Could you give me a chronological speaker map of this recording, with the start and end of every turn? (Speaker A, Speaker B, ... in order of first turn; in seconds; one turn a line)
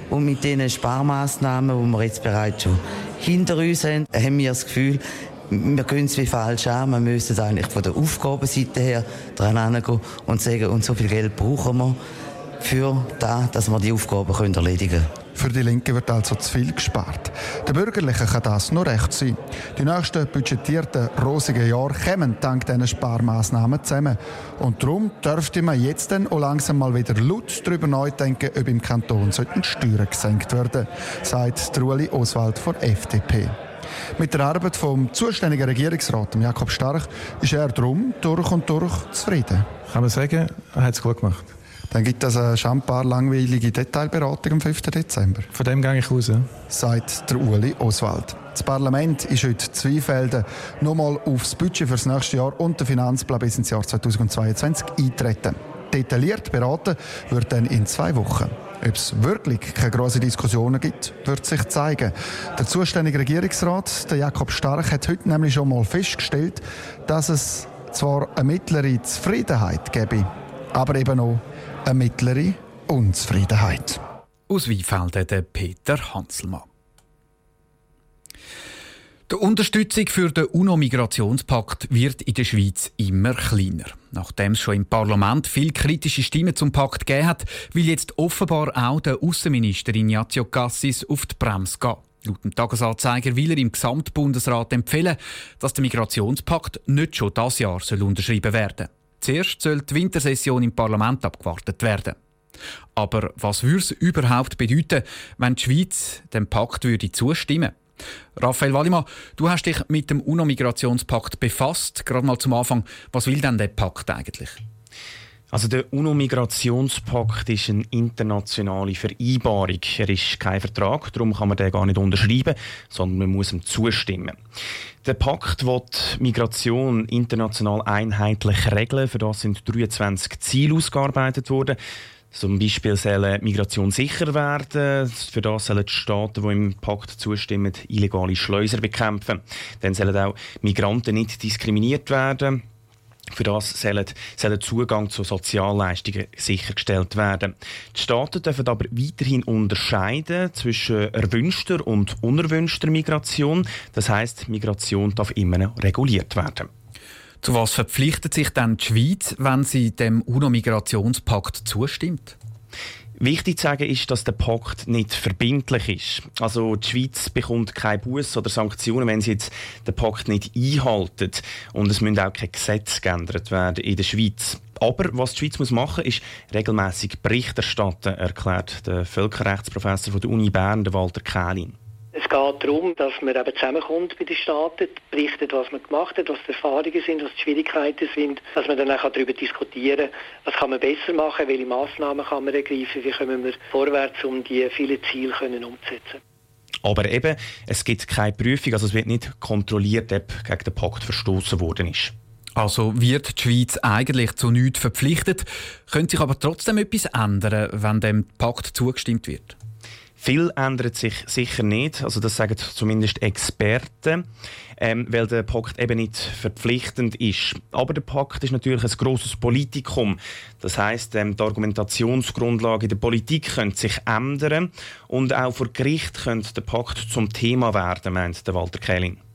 Speaker A: 0.1-12.0
Speaker A: 12.6-15.1
Speaker B: 15.4-33.5
Speaker B: 34.2-39.6
Speaker C: 39.9-41.5
Speaker B: 41.9-45.5
Speaker C: 45.5-46.5
Speaker B: 46.7-74.0
Speaker D: 74.5-76.7
Speaker D: 79.3-102.2
Speaker D: 103.0-107.8
Speaker D: 108.4-114.6
Speaker E: 115.5-124.4
Speaker E: 125.0-131.8
Speaker E: 132.3-142.6
Speaker E: 143.3-156.7
Speaker D: 157.4-162.4
Speaker E: 163.2-181.8
Speaker F: 182.1-196.2
Speaker E: 196.8-202.1
Speaker D: 202.6-209.6
Speaker E: 210.2-214.2
Speaker E: 214.8-229.2